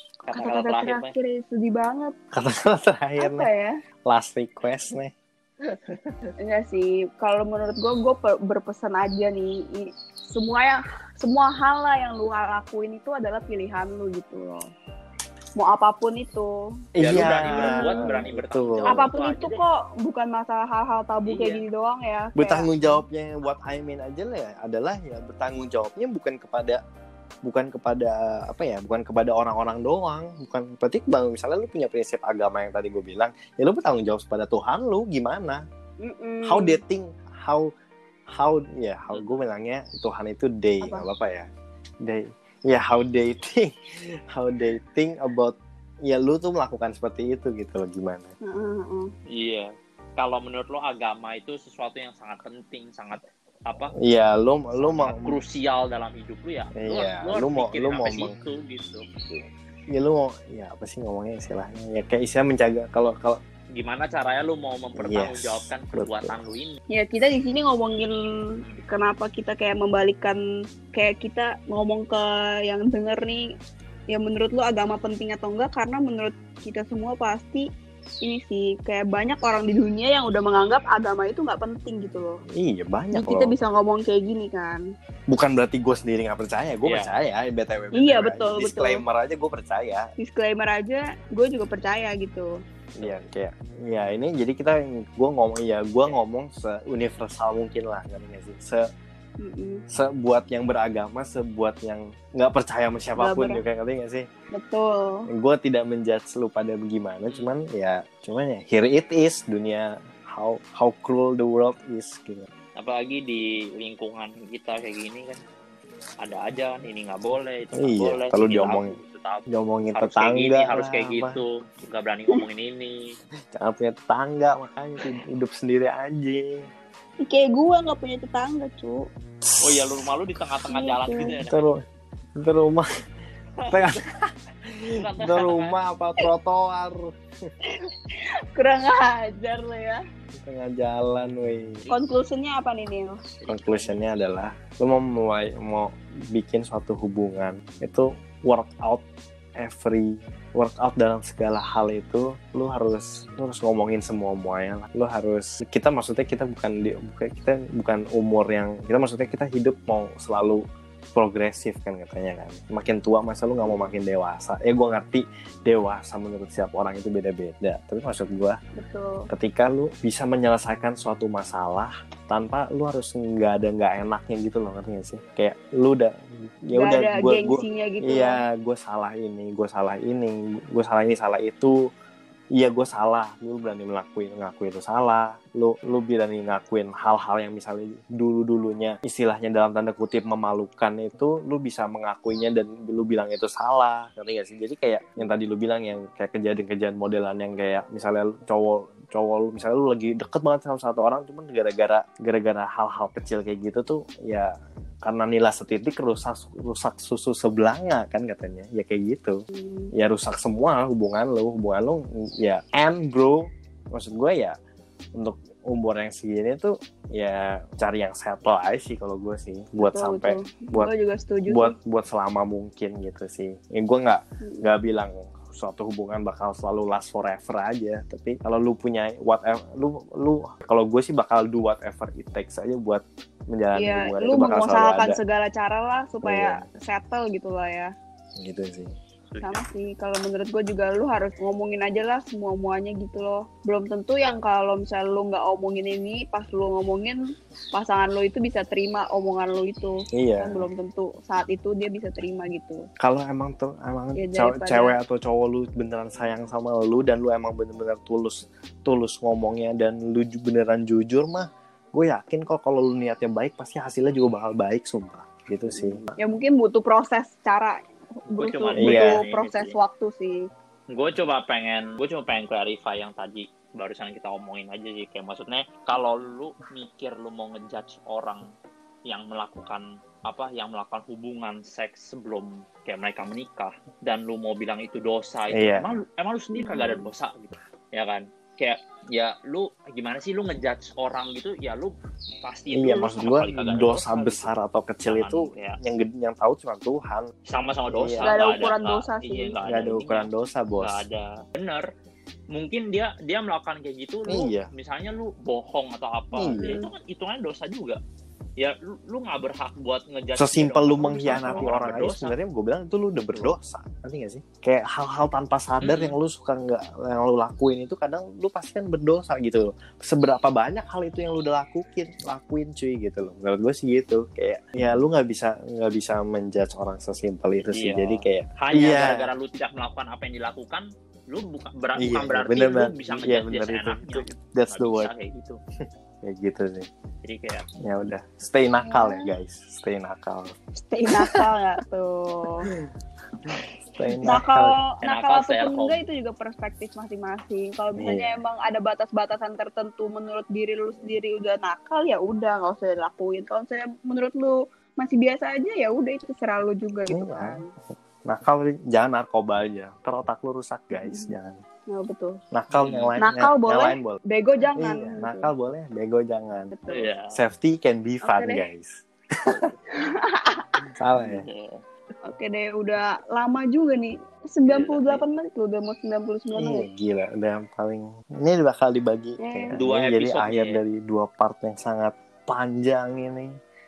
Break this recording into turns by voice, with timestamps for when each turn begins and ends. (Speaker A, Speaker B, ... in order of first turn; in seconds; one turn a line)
Speaker A: 0.2-1.1
Speaker B: 0.3-2.1
Speaker C: 2.3-3.5
Speaker B: 3.2-3.8
Speaker C: 4.1-5.1
Speaker B: 6.4-14.7
Speaker B: 15.6-16.6
Speaker C: 16.9-19.1
Speaker A: 17.0-19.6
Speaker B: 17.1-18.2
Speaker B: 18.9-22.7
Speaker A: 21.3-21.6
Speaker C: 22.4-26.8
Speaker C: 27.4-35.6
Speaker B: 36.0-36.8
Speaker C: 36.5-37.7
Speaker C: 38.3-41.5
Speaker B: 40.8-41.1
Speaker C: 42.0-48.3
Speaker B: 48.4-49.1
Speaker A: 49.3-53.9
Speaker C: 54.0-55.4
Speaker A: 54.8-59.1
Speaker C: 56.8-58.3
Speaker C: 59.3-63.4
Speaker A: 63.8-66.8
Speaker C: 65.0-66.4
Speaker B: 66.9-70.4
Speaker B: 70.9-73.6
Speaker B: 74.1-77.7
Speaker B: 78.2-82.4
Speaker C: 82.5-83.5
Speaker B: 83.1-84.8
Speaker C: 85.3-90.1
Speaker A: 86.8-87.1
Speaker B: 87.9-89.0
Speaker B: 90.2-92.6
Speaker C: 93.0-98.8
Speaker B: 99.4-99.8
Speaker C: 99.9-104.3
Speaker B: 103.2-103.6
Speaker B: 104.5-105.3
Speaker C: 105.3-112.5
Speaker A: 107.3-107.5
Speaker A: 112.8-115.4
Speaker A: 116.2-123.0
Speaker C: 117.8-119.0
Speaker C: 119.5-121.4
Speaker C: 123.5-126.7
Speaker B: 127.2-129.0
Speaker C: 129.4-130.1
Speaker A: 129.6-131.6
Speaker B: 130.7-131.3
Speaker C: 131.4-131.8
Speaker C: 132.4-132.9
Speaker A: 133.6-134.0
Speaker C: 133.7-137.1
Speaker A: 135.0-135.8
Speaker B: 138.6-140.0
Speaker C: 140.4-141.8
Speaker B: 141.9-143.3
Speaker A: 143.4-144.0
Speaker C: 143.5-149.0
Speaker C: 149.6-160.6
Speaker C: 161.1-168.6
Speaker B: 168.8-169.3
Speaker C: 169.3-181.8
Speaker B: 176.7-178.4
Speaker C: 182.6-209.4
Speaker B: 209.5-209.9
Speaker C: 209.9-214.6
Speaker C: 215.2-220.9
Speaker B: 219.8-221.8
Speaker C: 221.5-235.2
Speaker B: 233.7-237.9
Speaker C: 236.2-236.7
Speaker C: 238.4-238.9
Speaker A: 239.3-239.6
Speaker B: 239.4-247.2
Speaker B: 247.7-252.9
Speaker C: 250.1-250.7
Speaker C: 253.0-266.2
Speaker B: 254.2-254.9
Speaker B: 265.7-270.5
Speaker A: 268.3-269.8
Speaker C: 268.8-269.2
Speaker A: 270.9-278.5
Speaker A: 279.1-294.5
Speaker C: 285.5-286.0
Speaker B: 286.6-287.1
Speaker C: 292.7-297.3
Speaker A: 295.1-295.8
Speaker A: 297.5-300.3
Speaker C: 297.9-298.7
Speaker B: 298.2-299.5
Speaker C: 299.7-301.0
Speaker A: 300.8-301.9
Speaker A: 302.5-308.0
Speaker C: 304.3-304.7
Speaker C: 306.3-306.9
Speaker B: 306.6-306.9
Speaker A: 308.6-312.4
Speaker C: 310.4-329.3
Speaker B: 311.0-311.7
Speaker A: 315.8-316.2
Speaker A: 327.7-335.6
Speaker C: 332.0-335.1
Speaker C: 336.2-336.9
Speaker A: 337.2-337.7
Speaker C: 337.8-340.6
Speaker B: 338.9-339.3
Speaker B: 340.8-342.7
Speaker C: 341.1-341.5
Speaker C: 343.5-344.8
Speaker B: 344.1-357.7
Speaker A: 345.0-346.0
Speaker C: 348.0-348.4
Speaker C: 357.1-357.6
Speaker C: 358.3-361.6
Speaker B: 361.0-361.3
Speaker B: 361.9-362.4
Speaker C: 362.5-364.2
Speaker A: 362.7-363.2
Speaker B: 363.2-365.5
Speaker C: 364.8-366.7
Speaker B: 366.7-367.1
Speaker A: 366.9-367.4
Speaker C: 367.3-369.7
Speaker B: 368.2-368.6
Speaker A: 369.5-369.8
Speaker B: 369.9-370.7
Speaker C: 371.0-371.5
Speaker A: 371.2-371.8
Speaker B: 372.2-376.9
Speaker A: 374.7-375.2
Speaker C: 376.6-383.6
Speaker B: 379.4-379.8
Speaker A: 379.8-380.8